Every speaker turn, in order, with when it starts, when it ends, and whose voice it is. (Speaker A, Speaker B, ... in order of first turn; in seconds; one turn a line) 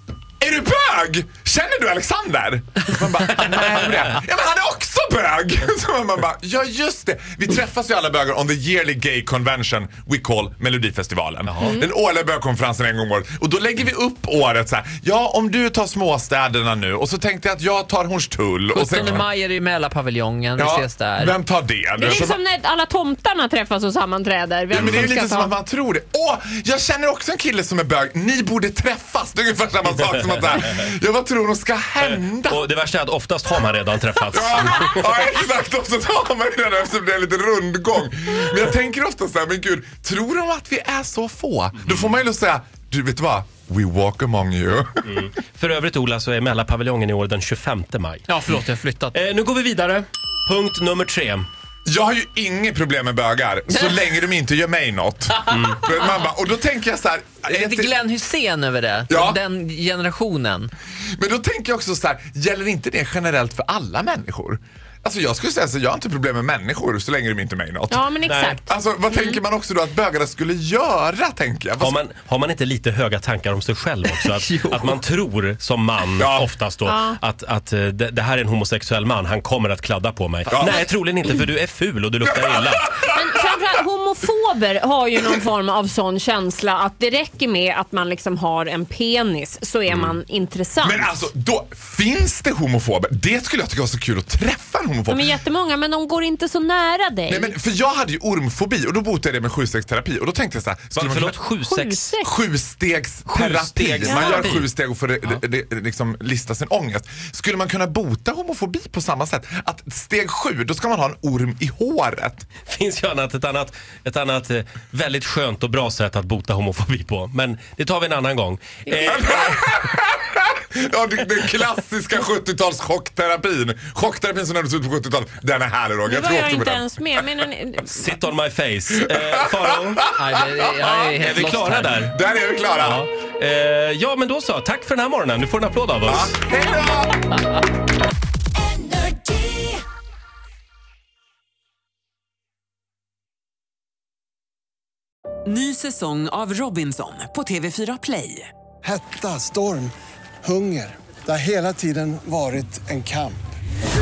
Speaker A: 0.4-19.2
Speaker B: 11.5-11.8
Speaker C: 18.7-21.4
Speaker A: 20.6-22.4
Speaker D: 22.0-25.5
Speaker A: 24.7-32.7
Speaker B: 30.0-30.9
Speaker B: 32.0-35.1
Speaker A: 34.3-45.3
Speaker B: 41.8-42.2
Speaker B: 45.0-48.4
Speaker C: 48.3-49.2
Speaker B: 49.1-51.5
Speaker A: 51.9-58.0
Speaker C: 53.7-54.0
Speaker B: 55.5-55.9
Speaker C: 57.5-60.7
Speaker A: 59.1-59.4
Speaker A: 61.2-68.1
Speaker D: 67.9-68.6
Speaker B: 68.2-68.6
Speaker A: 68.7-72.0
Speaker B: 71.8-83.0
Speaker C: 74.2-75.0
Speaker A: 76.2-76.5
Speaker D: 76.9-77.2
Speaker A: 80.5-80.9
Speaker A: 82.3-83.7
Speaker D: 83.1-91.1
Speaker B: 89.9-90.2
Speaker A: 90.8-95.4
Speaker D: 95.1-97.5
Speaker A: 97.3-101.4
Speaker B: 101.0-102.2
Speaker D: 101.7-102.2
Speaker A: 102.2-112.5
Speaker B: 103.3-104.7
Speaker B: 112.7-119.5
Speaker A: 118.9-127.0
Speaker D: 126.1-127.9
Speaker B: 127.9-130.1
Speaker A: 129.4-130.8
Speaker C: 130.2-131.9
Speaker B: 130.9-132.2
Speaker A: 132.0-133.1
Speaker B: 132.8-136.4
Speaker A: 136.0-137.3
Speaker E: 145.5-148.5
Speaker F: 148.8-153.4